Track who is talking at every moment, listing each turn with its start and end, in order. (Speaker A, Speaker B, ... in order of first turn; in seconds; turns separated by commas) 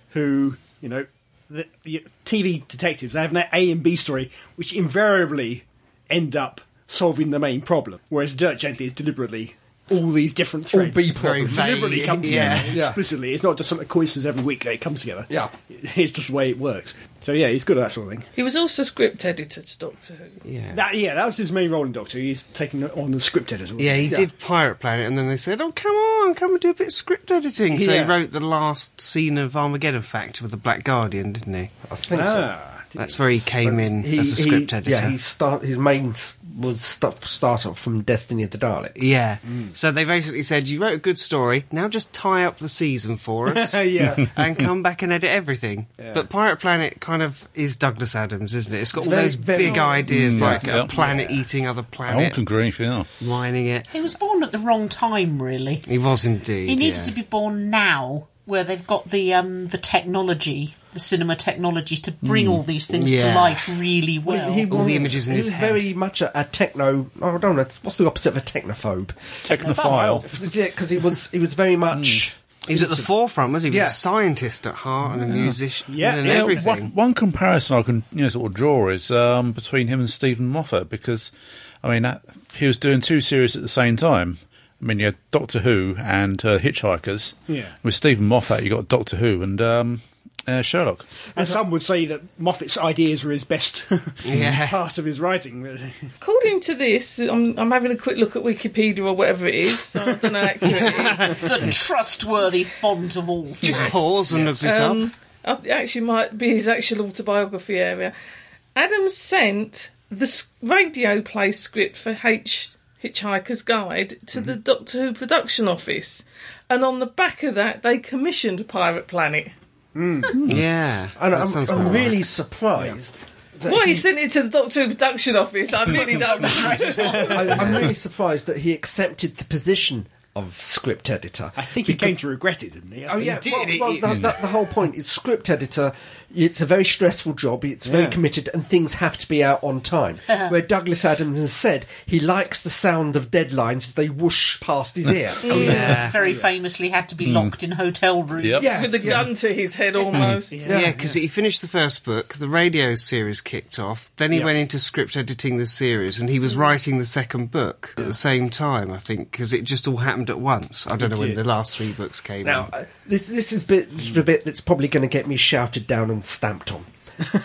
Speaker A: 0.1-18.3, Speaker B: 10.7-11.9, Speaker C: 11.2-12.8, Speaker B: 12.7-13.0, Speaker D: 18.4-20.4, Speaker C: 20.4-20.8, Speaker A: 20.7-24.2, Speaker C: 23.8-31.7, Speaker A: 27.7-28.2, Speaker B: 31.9-32.5, Speaker A: 32.1-33.1, Speaker C: 33.0-35.1, Speaker B: 33.6-39.1, Speaker C: 39.0-53.9, Speaker A: 39.5-39.7, Speaker A: 43.5-44.4, Speaker A: 46.0-46.3, Speaker B: 48.9-50.6, Speaker E: 50.1-50.9, Speaker A: 50.4-51.5, Speaker E: 52.1-53.1, Speaker F: 53.9-55.9, Speaker C: 55.9-57.1, Speaker F: 56.7-65.0, Speaker E: 62.2-62.6, Speaker C: 62.9-63.7, Speaker B: 64.2-69.4, Speaker C: 64.7-65.8, Speaker E: 69.4-70.3, Speaker F: 69.6-70.3, Speaker A: 69.9-70.1, Speaker B: 70.2-73.0, Speaker E: 71.9-72.2, Speaker C: 72.7-76.9, Speaker B: 73.7-74.0, Speaker E: 75.2-75.6, Speaker A: 75.9-76.5, Speaker E: 76.2-81.3, Speaker E: 81.8-91.1, Speaker A: 87.5-87.8, Speaker A: 91.3-96.1, Speaker C: 94.2-94.8, Speaker D: 96.2-101.5, Speaker C: 100.6-101.8, Speaker F: 100.8-104.2, Speaker C: 103.6-105.0, Speaker A: 103.8-104.7, Speaker D: 103.9-108.1, Speaker D: 108.8-119.5, Speaker A: 120.0-120.4, Speaker E: 120.4-120.6, Speaker C: 120.4-122.2, Speaker B: 121.2-124.0, Speaker D: 123.7-127.8, Speaker A: 126.9-127.9, Speaker B: 127.2-132.2, Speaker A: 131.6-133.6, Speaker B: 133.1-146.0, Speaker C: 133.4-134.2, Speaker A: 137.8-138.2, Speaker D: 145.4-145.8, Speaker C: 145.5-146.2, Speaker F: 145.5-148.9, Speaker A: 146.2-146.5, Speaker E: 147.2-147.6, Speaker E: 148.4-149.2, Speaker B: 148.6-149.3, Speaker D: 148.7-150.7, Speaker E: 150.1-150.4, Speaker A: 150.5-151.2, Speaker B: 150.7-150.9, Speaker C: 150.7-162.7, Speaker A: 161.0-161.4, Speaker B: 162.4-166.9